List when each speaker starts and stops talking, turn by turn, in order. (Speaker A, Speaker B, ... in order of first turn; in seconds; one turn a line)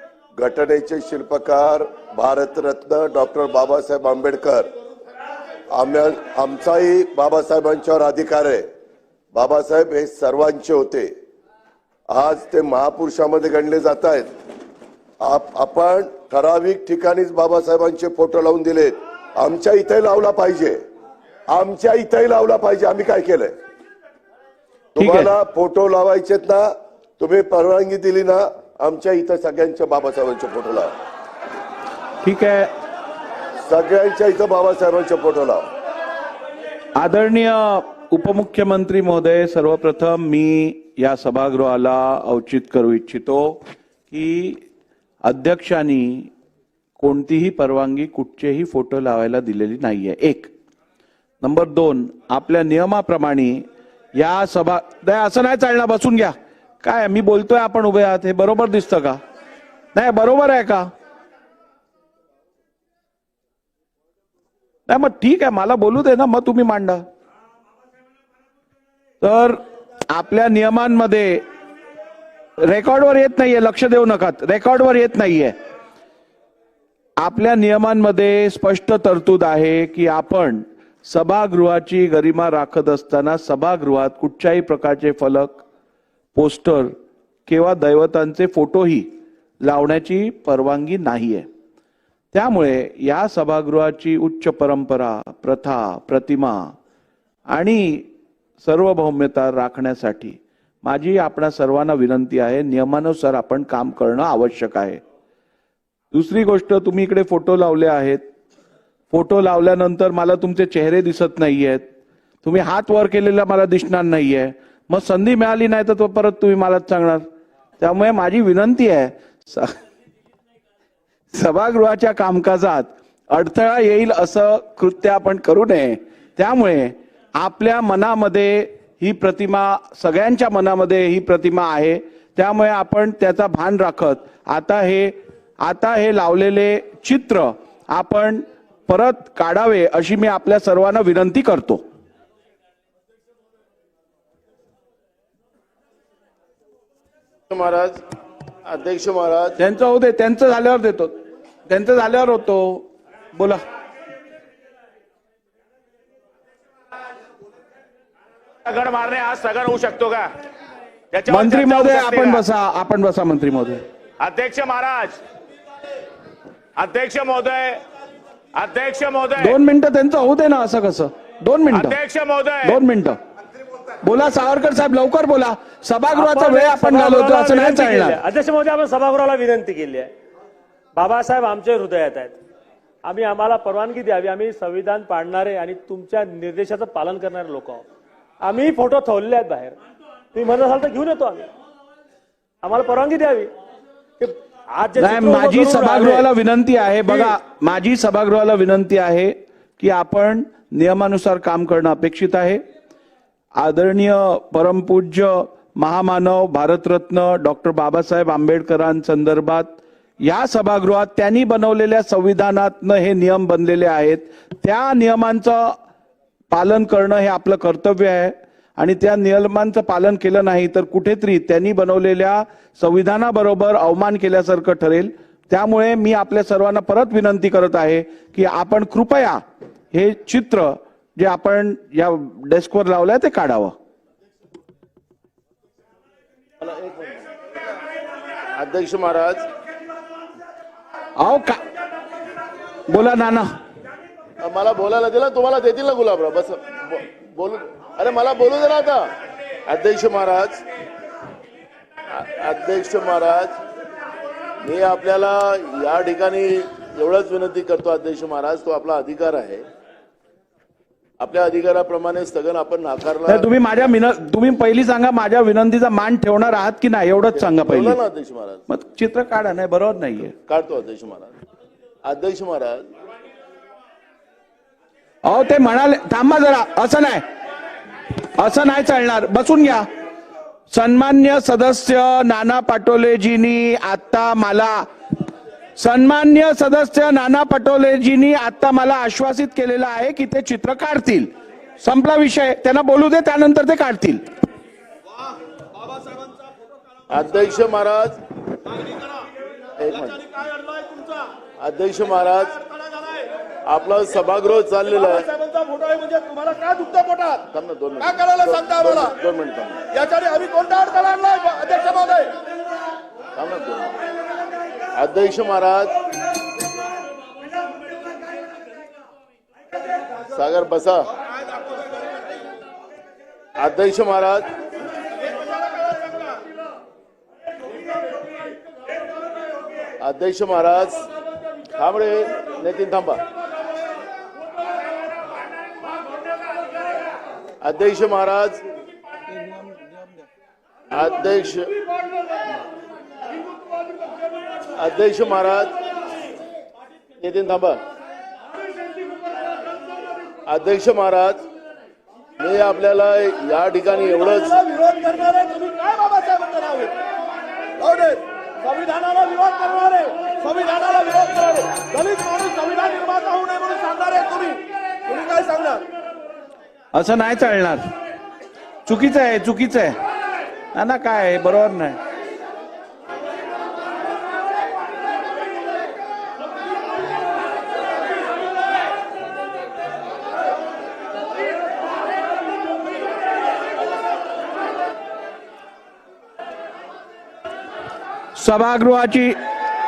Speaker A: 0.4-4.7
Speaker A: 5.7-8.7
Speaker A: 9.3-11.1
Speaker A: 12.1-14.3
Speaker A: 15.2-20.8
Speaker A: 21.5-23.5
Speaker A: 25.0-30.9
Speaker B: 25.0-25.3
Speaker B: 32.2-32.7
Speaker A: 33.7-35.6
Speaker B: 37.0-43.6
Speaker B: 44.1-44.6
Speaker B: 45.2-46.3
Speaker B: 47.0-50.5
Speaker B: 51.4-53.6
Speaker B: 54.2-59.2
Speaker B: 59.9-60.9
Speaker B: 64.9-67.0
Speaker B: 69.2-71.4
Speaker B: 72.6-75.5
Speaker B: 77.2-85.6
Speaker B: 86.3-86.9
Speaker B: 87.5-89.1
Speaker B: 89.6-91.5
Speaker B: 92.3-96.8
Speaker B: 97.5-98.1
Speaker B: 98.6-105.0
Speaker B: 106.1-108.2
Speaker B: 109.1-111.8
Speaker B: 112.4-117.3
Speaker B: 117.8-119.8
Speaker B: 121.3-141.8
Speaker C: 147.5-148.0
Speaker C: 148.7-149.6
Speaker B: 149.6-151.2
Speaker B: 151.7-153.6
Speaker D: 158.7-160.4
Speaker D: 161.1-162.4
Speaker B: 161.3-163.8
Speaker D: 164.2-165.2
Speaker D: 166.8-167.8
Speaker D: 168.5-169.6
Speaker B: 169.4-172.0
Speaker D: 171.7-172.8
Speaker B: 172.6-173.2
Speaker B: 174.0-178.2
Speaker E: 176.1-180.1
Speaker E: 180.9-182.4
Speaker E: 183.0-187.8
Speaker E: 188.4-189.8
Speaker E: 190.3-191.5
Speaker E: 192.6-193.5
Speaker E: 194.2-196.3
Speaker B: 195.0-202.6
Speaker B: 203.6-215.8
Speaker B: 216.5-229.4
Speaker B: 229.9-233.7
Speaker C: 236.6-237.2
Speaker C: 238.6-239.5
Speaker B: 241.2-241.6
Speaker B: 242.9-243.5
Speaker C: 244.4-249.1
Speaker C: 249.7-250.6
Speaker C: 252.1-253.6
Speaker C: 254.6-259.6
Speaker C: 261.2-263.5
Speaker B: 263.3-268.0
Speaker C: 267.4-268.6
Speaker B: 268.7-270.3
Speaker C: 270.4-271.3
Speaker C: 272.0-272.9
Speaker B: 275.2-277.2
Speaker B: 278.2-279.9
Speaker B: 280.7-284.9
Speaker B: 285.8-294.2
Speaker F: 295.9-296.3
Speaker C: 297.1-298.2
Speaker C: 299.8-300.2
Speaker F: 299.9-301.3
Speaker C: 301.6-302.6
Speaker F: 302.5-303.3
Speaker C: 303.7-305.3
Speaker F: 304.9-307.5
Speaker C: 307.5-309.8
Speaker F: 308.0-309.1
Speaker F: 309.9-312.3
Speaker C: 313.4-314.0
Speaker C: 314.9-315.9
Speaker C: 320.3-321.1
Speaker C: 323.6-324.5
Speaker C: 330.0-331.0
Speaker C: 331.8-333.2
Speaker C: 337.6-338.6
Speaker C: 340.9-341.7
Speaker C: 344.8-345.8
Speaker C: 347.2-347.8
Speaker C: 350.5-351.4
Speaker C: 352.4-354.6
Speaker F: 354.1-356.9
Speaker F: 357.8-365.8
Speaker B: 366.9-367.9
Speaker B: 368.9-370.0
Speaker B: 370.7-372.0
Speaker B: 388.4-389.4